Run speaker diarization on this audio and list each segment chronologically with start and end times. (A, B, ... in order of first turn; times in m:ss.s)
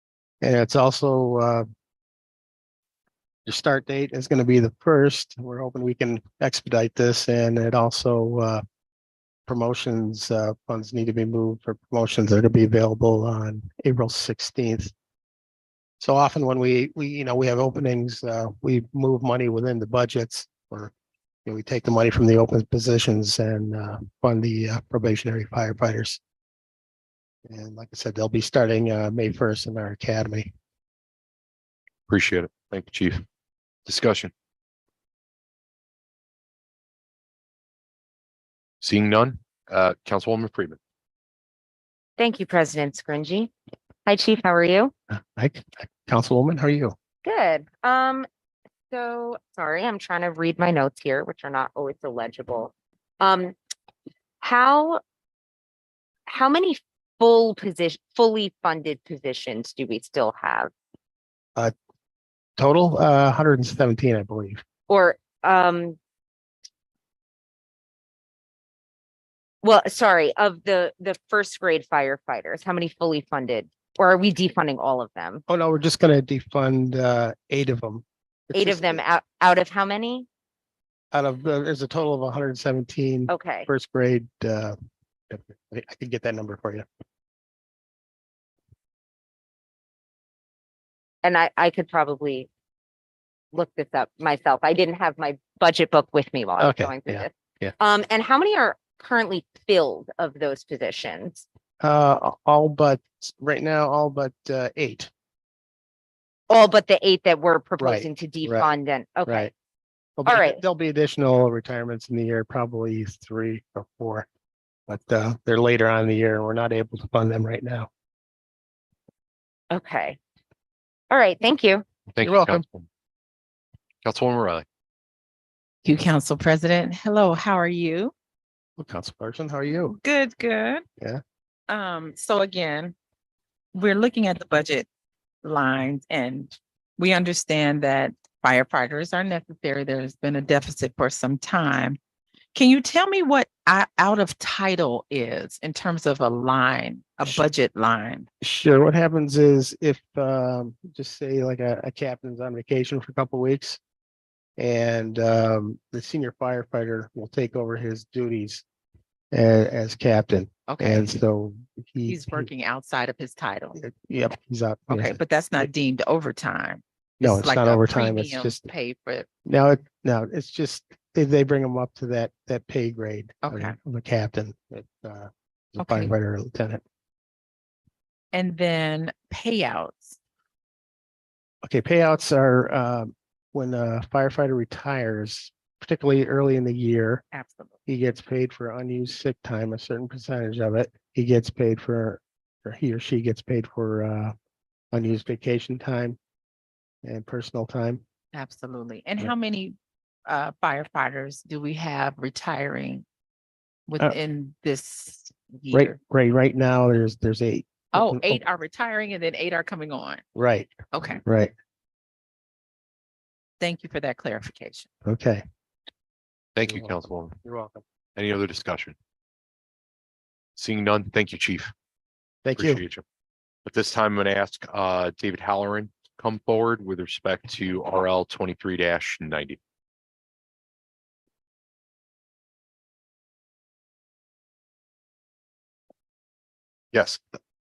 0:00.4-0:01.6 A
0:03.4-0:08.6 A
0:09.5-0:14.9 A
0:16.0-0:20.9 A
0:21.4-0:26.2 A
0:27.4-0:30.5 A
0:32.1-0:33.2 B
0:33.8-0:34.3 B
0:38.8-0:40.8 B
0:42.2-0:43.5 C
0:44.0-0:44.9 C
0:45.1-0:46.9 A
0:47.2-0:48.3 C
0:48.9-0:53.5 C
0:54.4-0:55.0 C
0:56.3-1:00.7 C
1:02.6-1:04.6 A
1:04.9-1:06.0 C
1:09.6-1:15.4 C
1:15.5-1:19.0 A
1:18.5-1:20.2 C
1:21.1-1:24.8 A
1:23.3-1:23.7 C
1:25.3-1:26.8 A
1:31.2-1:32.5 C
1:33.5-1:41.4 C
1:36.6-1:37.7 A
1:41.8-1:45.1 A
1:46.5-1:49.5 C
1:47.8-1:48.7 A
1:50.2-1:54.3 A
1:50.2-1:50.6 C
1:54.9-1:57.9 A
1:59.7-2:00.2 C
2:01.1-2:01.8 C
2:02.1-2:02.9 B
2:02.2-2:02.6 A
2:04.0-2:04.6 B
2:05.8-2:08.1 D
2:08.8-2:10.0 A
2:09.8-2:10.8 D
2:11.7-2:12.9 D
2:13.7-2:14.8 D
2:15.4-2:22.0 D
2:22.5-2:28.3 D
2:28.4-2:33.8 A
2:34.6-2:38.6 A
2:39.3-2:42.5 A
2:40.7-2:41.2 D
2:42.0-2:43.8 D
2:43.8-2:45.2 A
2:44.9-2:49.3 D
2:47.2-2:48.6 A
2:49.4-2:56.8 A
2:53.4-2:53.8 D
2:55.8-2:56.1 D
2:58.3-3:00.2 D
3:01.6-3:07.2 A
3:07.3-3:07.8 D
3:07.8-3:14.3 A
3:14.9-3:16.2 A
3:17.0-3:18.0 A
3:18.3-3:19.8 D
3:20.3-3:23.0 D
3:23.9-3:26.0 D
3:25.7-3:28.4 A
3:27.9-3:30.2 D
3:30.3-3:30.7 A
3:30.9-3:31.2 D
3:31.2-3:31.5 A
3:33.6-3:34.9 D
3:35.0-3:35.4 A
3:36.6-3:37.4 B
3:36.6-3:37.8 A
3:38.2-3:39.0 B
3:40.6-3:41.7 B
3:42.4-3:42.8 A
3:42.6-3:43.0 B
3:43.6-3:49.6 B
3:56.9-3:57.4 B